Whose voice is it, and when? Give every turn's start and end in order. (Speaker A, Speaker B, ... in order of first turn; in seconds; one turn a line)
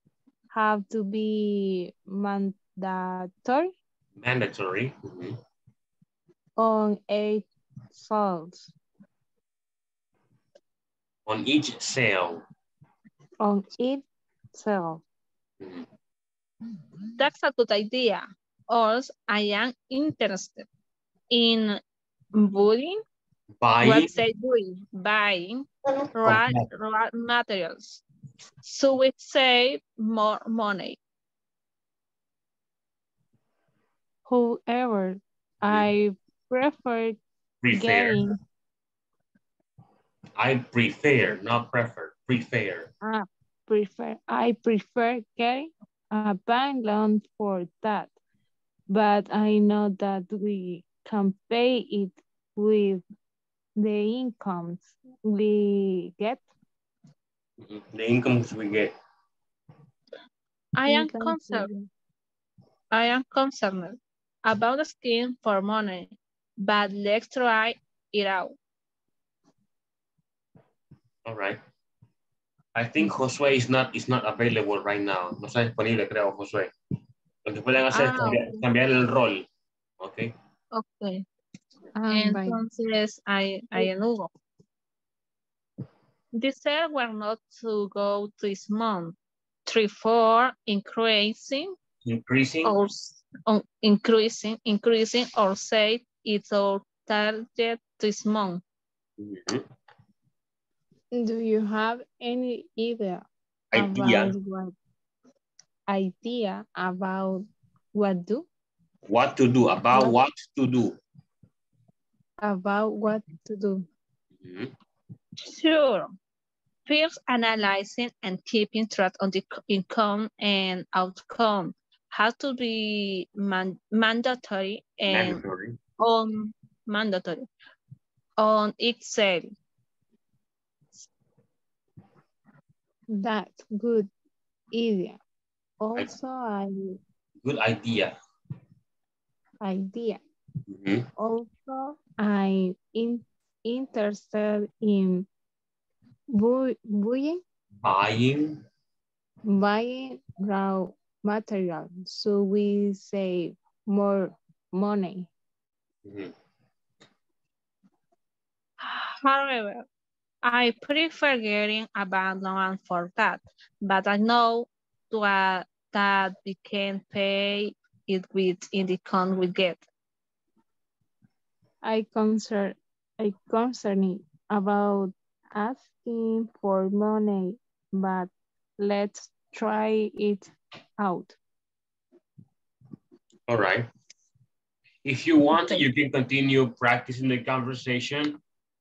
Speaker A: 0.5-3.7
Speaker B: 4.2-5.4
Speaker A: 6.6-8.7
Speaker B: 11.3-12.4
Speaker A: 13.4-15.0
Speaker B: 15.6-15.9
Speaker C: 17.2-20.6
Speaker C: 21.3-21.8
Speaker C: 22.3-23.0
Speaker B: 23.6-24.1
Speaker C: 23.8-25.6
Speaker C: 26.2-28.0
Speaker B: 26.2-26.7
Speaker C: 28.6-30.9
Speaker A: 34.3-38.4
Speaker B: 35.6-35.9
Speaker B: 37.6-38.2
Speaker B: 40.4-42.9
Speaker A: 43.0-48.1
Speaker A: 48.9-53.0
Speaker A: 53.8-56.4
Speaker B: 57.6-58.9
Speaker C: 60.8-61.7
Speaker A: 60.9-61.9
Speaker C: 62.9-68.5
Speaker B: 71.2-71.6
Speaker B: 72.7-76.7
Speaker B: 77.4-79.5
Speaker C: 77.9-78.5
Speaker B: 80.0-80.3
Speaker C: 80.7-81.2
Speaker A: 81.9-82.6
Speaker C: 82.1-84.3
Speaker C: 86.3-89.1
Speaker C: 89.7-91.7
Speaker B: 92.0-92.7
Speaker C: 92.7-98.6
Speaker B: 99.2-99.6
Speaker A: 101.1-104.7
Speaker B: 103.7-104.3
Speaker A: 105.9-108.4
Speaker B: 109.1-111.0
Speaker A: 112.4-113.8
Speaker B: 114.4-114.7
Speaker C: 115.5-116.1
Speaker C: 116.9-125.4
Speaker B: 125.1-125.8
Speaker C: 126.0-127.4
Speaker C: 128.4-129.5
Speaker A: 133.1-134.1
Speaker A: 134.7-135.2
Speaker A: 135.8-137.0
Speaker B: 137.4-138.2
Speaker A: 139.6-140.2
Speaker B: 140.7-141.1
Speaker A: 141.2-145.3
Speaker A: 146.3-147.4
Speaker B: 147.8-148.6
Speaker A: 149.5-155.3
Speaker B: 156.0-156.3
Speaker C: 158.8-159.8
Speaker C: 160.4-169.8
Speaker A: 171.8-181.3
Speaker B: 183.5-183.9
Speaker B: 185.0-188.4